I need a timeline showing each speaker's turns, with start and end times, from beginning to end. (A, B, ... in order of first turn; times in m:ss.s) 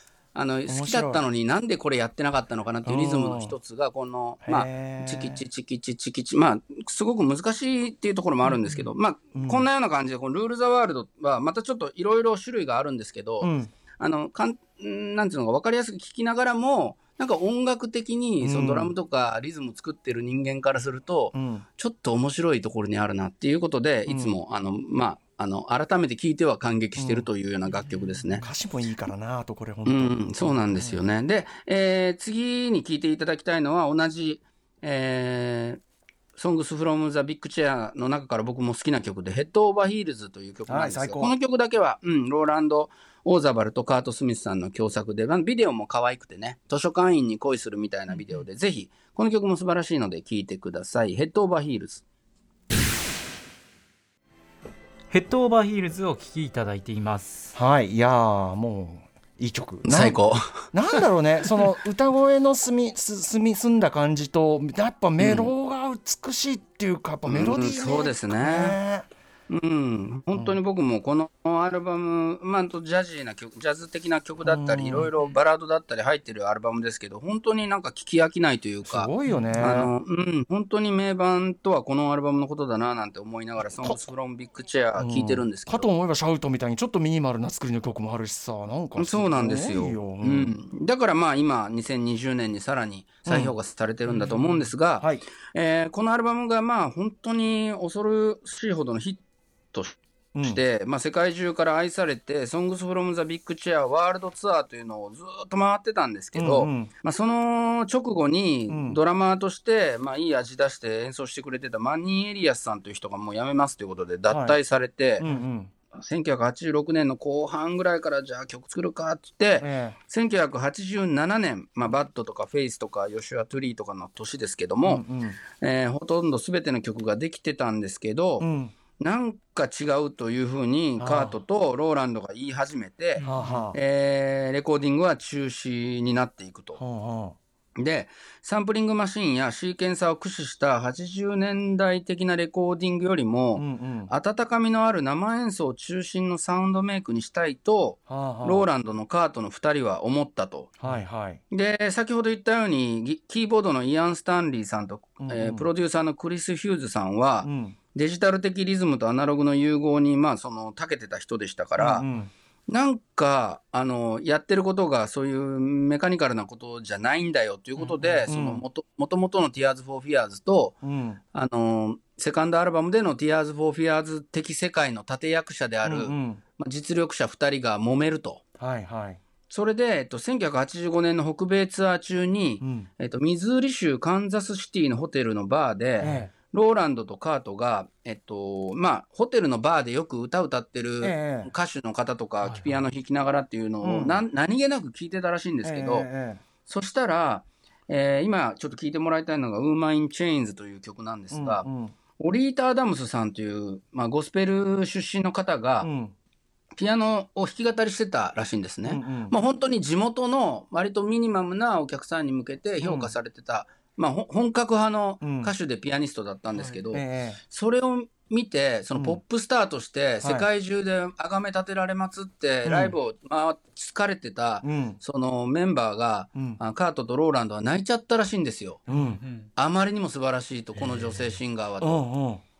0:00.3-0:28.4 A
0:00.7-0:01.2 B
0:02.8-0:03.5 B
0:04.4-0:05.4 B
0:08.4-0:08.9 C
0:09.3-0:09.7 B
0:13.4-0:13.7 B
0:18.4-0:18.9 B
0:21.3-0:21.6 B
0:24.1-0:24.4 B
0:27.0-0:27.3 B
0:27.8-0:28.4 C
0:28.4-0:30.8 B
0:29.8-0:35.8 A
0:36.4-0:52.0 A
0:40.7-0:41.3 B
0:55.1-0:57.5 C
0:57.5-1:00.2 B
0:59.9-1:01.0 A
1:00.7-1:09.0 B
1:05.2-1:05.5 A
1:07.2-1:08.8 A
1:09.5-1:25.9 A
1:14.4-1:15.1 B
1:18.8-1:19.9 B
1:19.2-1:19.7 C
1:25.0-1:30.6 B
1:29.0-1:39.2 A
1:33.2-1:33.5 B
1:34.0-1:34.7 C
1:35.0-1:35.2 B
1:39.7-1:55.2 A
1:40.3-1:40.6 B
1:46.3-1:46.9 B
1:48.7-1:49.0 B
1:54.3-1:54.6 B
1:55.2-1:55.7 B
1:55.9-2:16.8 A
1:59.6-2:00.0 B
2:04.8-2:05.4 B
2:08.4-2:08.7 B
2:11.0-2:11.3 B
2:13.2-2:13.7 C
2:13.2-2:13.8 B
2:16.8-2:17.4 B
2:17.8-2:30.7 A
2:23.5-2:24.1 B
2:28.1-2:28.7 B
2:30.8-2:31.4 B
2:31.5-2:42.0 A
2:35.2-2:35.7 B
2:37.4-2:37.8 B
2:41.8-2:42.3 B
2:42.7-2:50.8 A
2:47.8-2:48.3 C
2:48.3-2:48.6 B
2:50.8-2:51.2 B
2:51.3-2:58.4 A
2:55.8-2:56.4 B
2:58.6-2:59.2 B
2:59.5-3:16.1 A
3:02.6-3:02.9 B
3:06.0-3:06.3 C
3:06.0-3:06.3 B
3:11.0-3:11.5 B
3:12.4-3:12.8 C
3:13.8-3:14.2 B
3:15.6-3:16.4 B
3:16.6-3:25.9 A
3:21.3-3:21.9 B
3:25.8-3:26.1 B
3:26.8-3:48.8 A
3:28.8-3:29.3 B
3:35.2-3:35.5 B
3:36.9-3:37.4 B
3:42.6-3:42.9 B
3:44.6-3:45.0 B
3:48.9-3:49.5 C
3:48.9-3:49.2 B
3:49.6-3:52.0 A
3:50.8-3:51.4 C
3:51.8-3:52.4 B